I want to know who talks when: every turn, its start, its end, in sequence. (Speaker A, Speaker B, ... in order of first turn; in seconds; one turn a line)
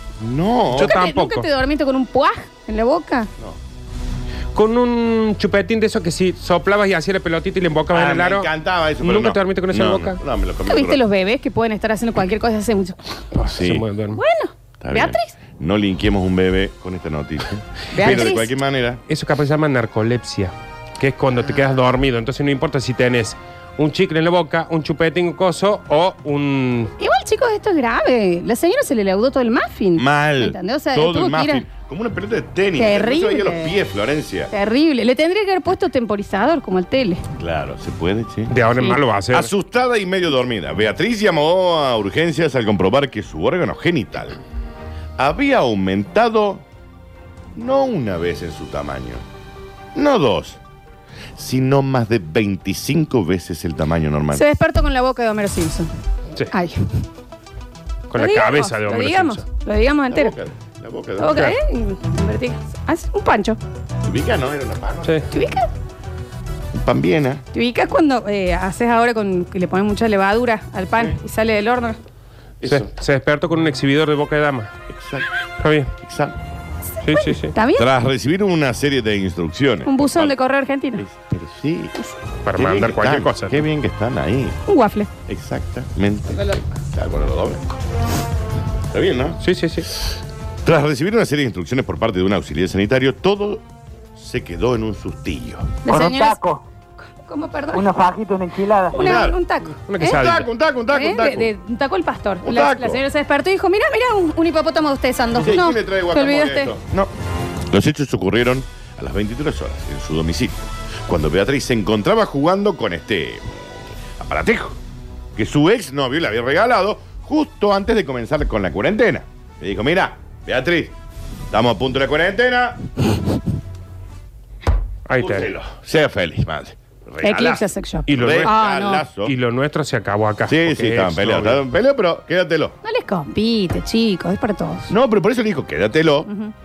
Speaker A: 0.2-0.9
Speaker B: 0.8-3.3
Speaker C: 0.8-1.5
Speaker C: 4.5-8.5
Speaker A: 7.9-11.0
Speaker C: 9.0-10.2
Speaker B: 10.7-13.3
Speaker C: 13.3-14.2
Speaker A: 13.4-13.8
Speaker B: 14.1-15.3
Speaker A: 14.8-19.0
Speaker B: 17.9-18.5
Speaker C: 19.1-26.9
Speaker B: 27.0-31.6
Speaker A: 29.9-34.5
Speaker B: 32.8-33.8
Speaker B: 34.5-37.2
Speaker A: 37.4-38.5
Speaker C: 38.5-39.5
Speaker B: 38.7-39.0
Speaker A: 39.3-44.4
Speaker A: 45.2-46.6
Speaker A: 47.5-49.2
Speaker A: 49.9-50.6
Speaker A: 51.3-54.4
Speaker B: 54.3-55.9
Speaker B: 56.5-56.9
Speaker C: 58.1-59.4
Speaker B: 58.1-60.3
Speaker A: 60.1-61.5
Speaker B: 61.2-63.6
Speaker A: 64.0-65.4
Speaker B: 65.3-65.7
Speaker A: 66.7-67.4
Speaker B: 67.5-72.0
Speaker A: 72.6-72.9
Speaker C: 72.6-74.7
Speaker A: 74.9-75.3
Speaker C: 75.6-75.9
Speaker A: 76.0-76.4
Speaker B: 77.0-77.9
Speaker C: 77.0-77.5
Speaker A: 77.7-80.3
Speaker B: 79.8-81.0
Speaker A: 81.0-81.9
Speaker C: 82.4-83.6
Speaker A: 82.5-84.6
Speaker B: 84.7-85.1
Speaker A: 85.3-87.7
Speaker A: 88.9-90.1
Speaker C: 89.4-89.9
Speaker A: 90.6-93.6
Speaker A: 94.1-95.8
Speaker B: 95.8-96.4
Speaker D: 95.9-96.6
Speaker B: 97.2-97.9
Speaker D: 97.7-99.2
Speaker B: 98.9-100.3
Speaker A: 98.9-99.4
Speaker C: 99.9-100.5
Speaker A: 100.0-101.5
Speaker B: 100.9-106.7
Speaker A: 102.4-103.0
Speaker A: 105.3-107.1
Speaker A: 107.7-114.8
Speaker A: 115.3-121.0
Speaker A: 121.5-122.8
Speaker C: 125.1-125.5
Speaker A: 125.2-129.3
Speaker B: 127.2-129.1
Speaker C: 128.1-128.6
Speaker C: 129.2-131.6
Speaker A: 130.4-132.7
Speaker B: 132.8-134.9
Speaker A: 134.9-136.3
Speaker B: 136.3-136.5